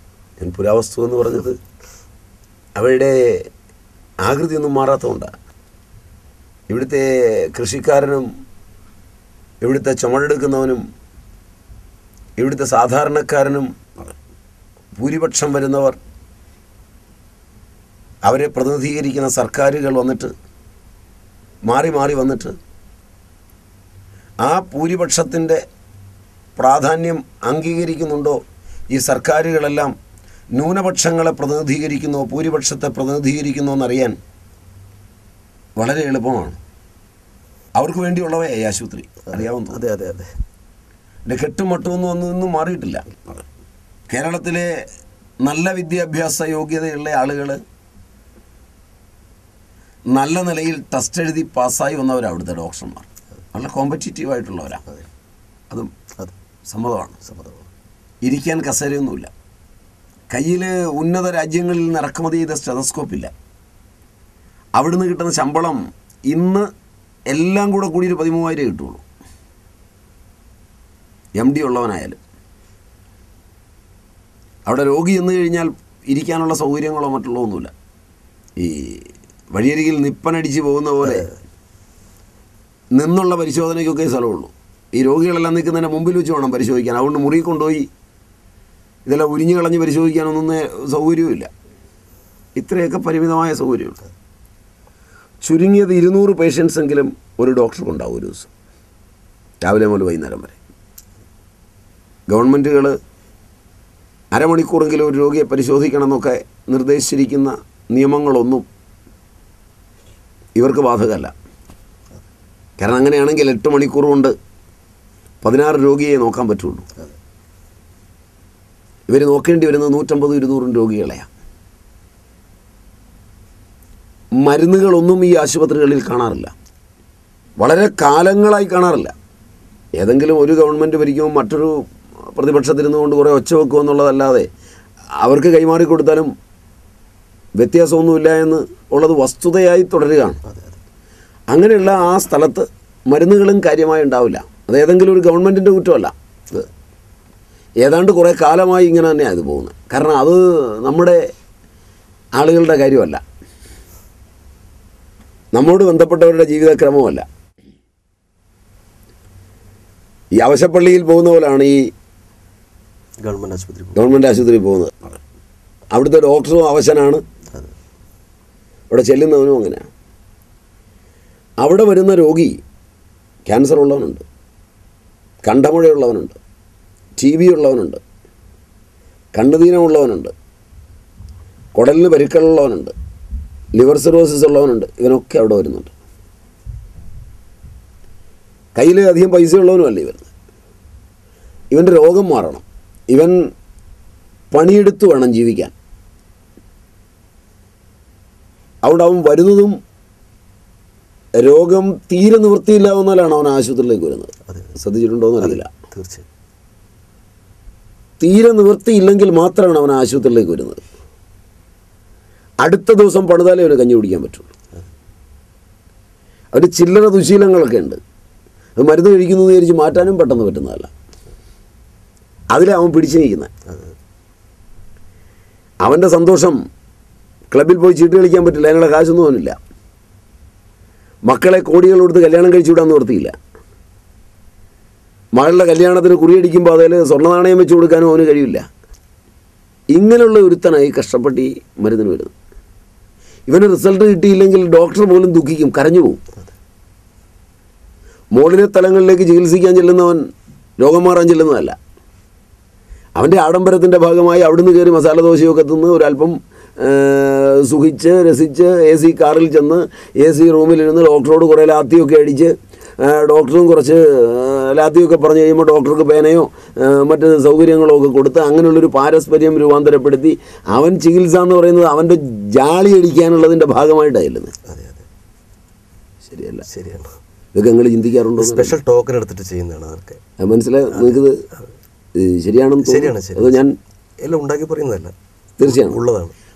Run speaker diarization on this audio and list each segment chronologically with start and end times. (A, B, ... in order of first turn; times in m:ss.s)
0:00.4-0:01.6 A
0:02.8-0:03.5 A
0:04.2-0:05.3 A
0:06.7-0:08.3 A
0:09.6-0:10.8 A
0:12.4-0:14.1 A
0:14.9-0:16.0 A
0:18.2-0:20.3 A
0:21.7-0:22.6 A
0:24.4-0:25.6 A
0:26.6-0:28.4 A
0:28.9-0:29.9 A
0:30.6-0:34.2 A
0:35.8-0:36.6 A
0:37.8-0:39.8 A
0:39.3-0:40.3 B
0:41.2-0:43.4 A
0:44.1-0:44.8 A
0:45.4-0:47.6 A
0:50.1-0:54.8 A
0:56.7-0:57.2 A
0:57.2-0:57.7 B
0:58.2-0:59.3 A
1:00.3-1:03.3 A
1:04.8-1:06.7 A
1:07.3-1:09.0 A
1:11.4-1:12.2 A
1:14.6-1:17.7 A
1:18.6-1:21.3 A
1:22.9-1:27.9 A
1:29.0-1:31.5 A
1:32.6-1:34.0 A
1:35.4-1:38.5 A
1:39.6-1:40.6 A
1:42.3-1:43.0 A
1:44.3-1:48.6 A
1:50.6-1:51.3 A
1:52.8-1:54.3 A
1:55.4-1:56.9 A
1:59.1-2:01.3 A
2:04.4-2:06.5 A
2:07.6-2:09.1 A
2:10.0-2:14.5 A
2:15.2-2:16.3 A
2:17.6-2:20.4 A
2:20.4-2:20.8 B
2:21.5-2:26.7 A
2:27.8-2:31.2 A
2:32.4-2:33.2 A
2:35.5-2:37.2 A
2:40.4-2:41.9 A
2:43.2-2:44.0 B
2:43.9-2:45.2 A
2:45.9-2:47.2 A
2:48.9-2:49.9 A
2:51.6-2:52.6 A
2:53.4-2:54.2 A
2:55.4-2:56.4 A
2:57.2-2:58.0 A
2:59.3-3:00.3 A
3:01.7-3:02.9 A
3:03.7-3:05.9 A
3:08.7-3:10.3 A
3:11.7-3:13.4 A
3:14.5-3:15.7 A
3:18.8-3:19.8 A
3:21.4-3:25.7 A
3:24.5-3:24.8 B
3:25.4-3:26.2 B
3:28.2-3:30.8 A
3:32.6-3:34.5 A
3:36.5-3:38.0 A
3:38.8-3:40.9 A
3:42.5-3:43.5 A
3:45.8-3:46.6 A
3:47.5-3:49.6 A
3:51.3-3:53.4 A
3:55.4-3:58.6 A
3:59.9-4:02.3 A
4:03.5-4:06.2 A
4:08.3-4:10.2 A
4:10.8-4:11.8 A
4:13.2-4:34.5 A
4:34.6-4:35.0 B
4:36.3-4:36.7 A
4:36.7-4:37.1 B
4:37.5-4:38.8 A
4:38.4-4:40.2 B
4:40.4-4:41.4 A
4:42.2-4:43.7 A
4:42.8-4:43.6 B
4:44.2-4:46.3 B
4:45.6-4:46.0 A